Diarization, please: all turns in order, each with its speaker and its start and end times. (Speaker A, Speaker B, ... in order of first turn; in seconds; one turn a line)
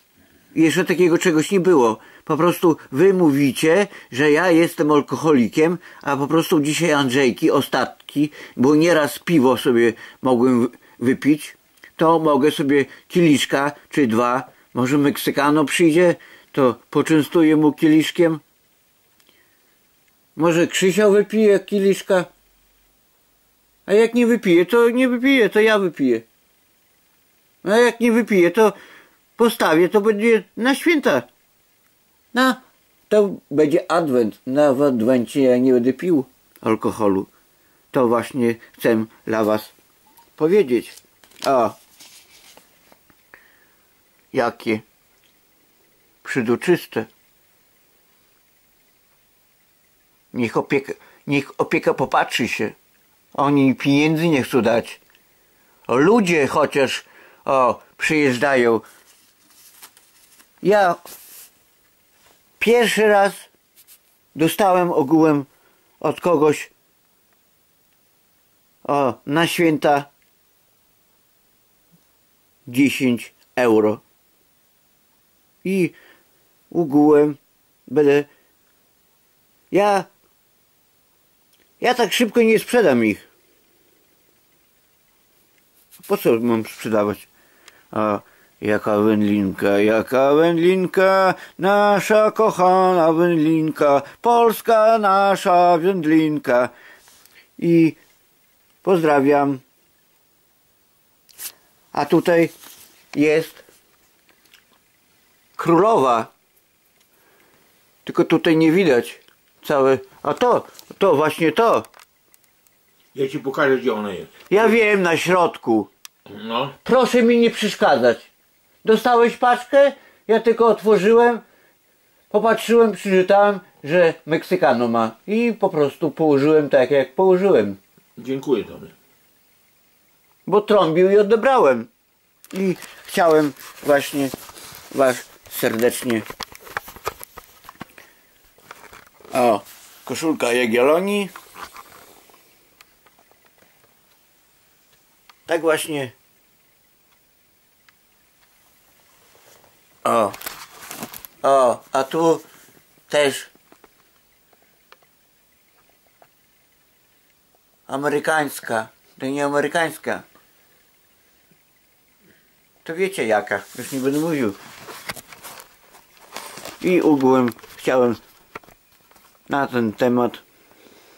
Speaker A: 0.5-18.4
Speaker A: 20.3-22.3
Speaker A: 23.9-26.2
Speaker A: 27.6-28.7
Speaker A: 29.4-31.3
Speaker A: 32.3-37.3
Speaker A: 37.9-39.7
Speaker A: 40.4-41.8
Speaker A: 44.3-44.8
Speaker A: 46.2-47.1
Speaker A: 50.3-52.7
Speaker A: 53.3-55.0
Speaker A: 55.9-58.8
Speaker A: 60.6-61.0
Speaker A: 62.6-63.5
Speaker A: 64.3-65.5
Speaker A: 66.0-66.7
Speaker A: 68.8-70.1
Speaker A: 72.7-74.0
Speaker A: 75.6-75.9
Speaker A: 76.7-78.3
Speaker A: 79.7-80.1
Speaker A: 81.8-83.2
Speaker A: 86.0-87.2
Speaker A: 87.9-96.7
Speaker A: 97.6-98.0
Speaker A: 98.8-99.6
Speaker A: 101.9-102.5
Speaker A: 103.1-103.6
Speaker A: 105.6-106.3
Speaker A: 108.0-111.9
Speaker B: 113.1-114.3
Speaker A: 114.5-115.9
Speaker B: 116.3-116.7
Speaker A: 116.8-118.3
Speaker A: 118.8-121.4
Speaker A: 122.3-127.8
Speaker B: 128.2-128.9
Speaker A: 130.4-131.9
Speaker A: 132.5-134.3
Speaker A: 134.9-136.2
Speaker A: 139.3-141.3
Speaker A: 145.5-146.1
Speaker A: 150.0-150.3
Speaker A: 151.4-152.4
Speaker A: 153.1-153.5
Speaker A: 157.9-160.2
Speaker A: 162.8-164.6
Speaker A: 166.8-168.2
Speaker A: 169.5-170.4